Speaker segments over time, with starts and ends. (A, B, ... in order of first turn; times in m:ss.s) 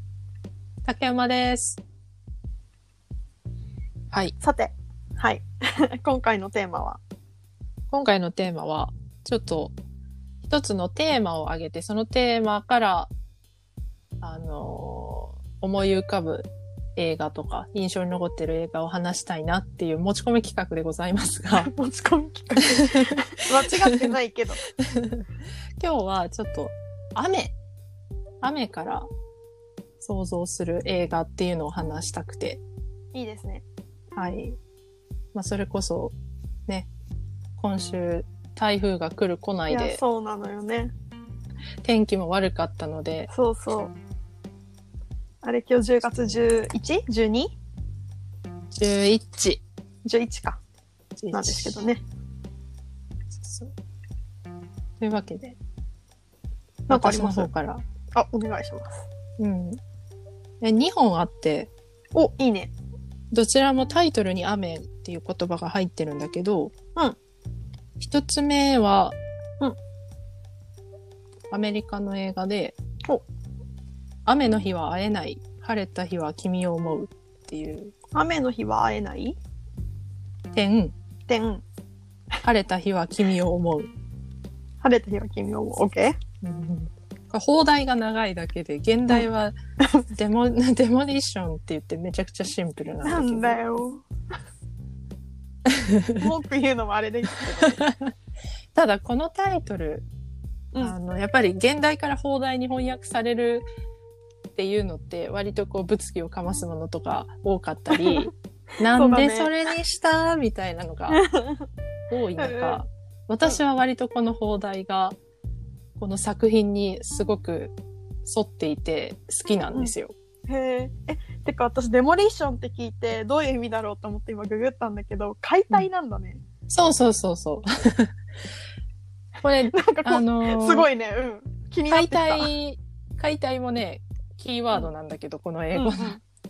0:00.8-0:01.8 A
0:04.4-0:07.0 B
0:07.9-0:09.7 A
0:10.4-0:13.1 A
0:14.2-0:21.7 A
0:21.5-0:24.6 B
0:22.8-0:23.0 A
0:23.8-0:24.1 A
0:24.8-0:25.2 A
0:25.8-0:27.6 A
0:28.4-0:29.1 A
0:30.0-0:32.6 A
0:33.1-0:33.6 B
0:34.1-0:34.6 A
0:35.3-0:36.2 A
0:37.6-0:40.0 A
0:39.7-0:40.9 B
0:41.8-0:43.3 A
0:43.3-0:43.9 B
0:45.4-0:47.5 B
0:48.7-0:49.6 A
0:50.0-0:50.6 B
0:51.2-0:51.8 A
0:51.3-0:52.0 B
0:53.4-0:53.7 A
0:55.0-0:55.6 A
0:56.9-0:57.5 B
0:56.9-0:57.8 A
0:58.1-0:59.1 B
0:59.4-0:59.8 A
1:00.6-1:01.7 A
1:02.2-1:02.7 B
1:03.3-1:06.7 A
1:08.0-1:09.2 A
1:11.5-1:12.8 A
1:14.2-1:17.9 A
1:18.2-1:19.4 B
1:20.5-1:20.9 A
1:21.3-1:21.6 B
1:22.4-1:23.9 A
1:24.8-1:26.2 B
1:26.4-1:29.6 A
1:30.1-1:33.6 A
1:33.0-1:34.0 B
1:35.7-1:36.3 A
1:36.2-1:37.8 B
1:37.6-1:37.9 A
1:38.8-1:40.1 A
1:40.8-1:43.7 A
1:44.6-1:51.2 A
1:47.9-1:48.3 B
1:48.9-1:49.5 B
1:51.1-1:51.6 B
1:52.1-1:55.2 A
1:52.4-1:52.8 B
1:56.0-2:00.1 A
2:00.5-2:06.4 B
2:06.7-2:08.1 A
2:09.4-2:10.9 A
2:09.7-2:12.5 B
2:11.9-2:16.2 A
2:15.7-2:16.2 B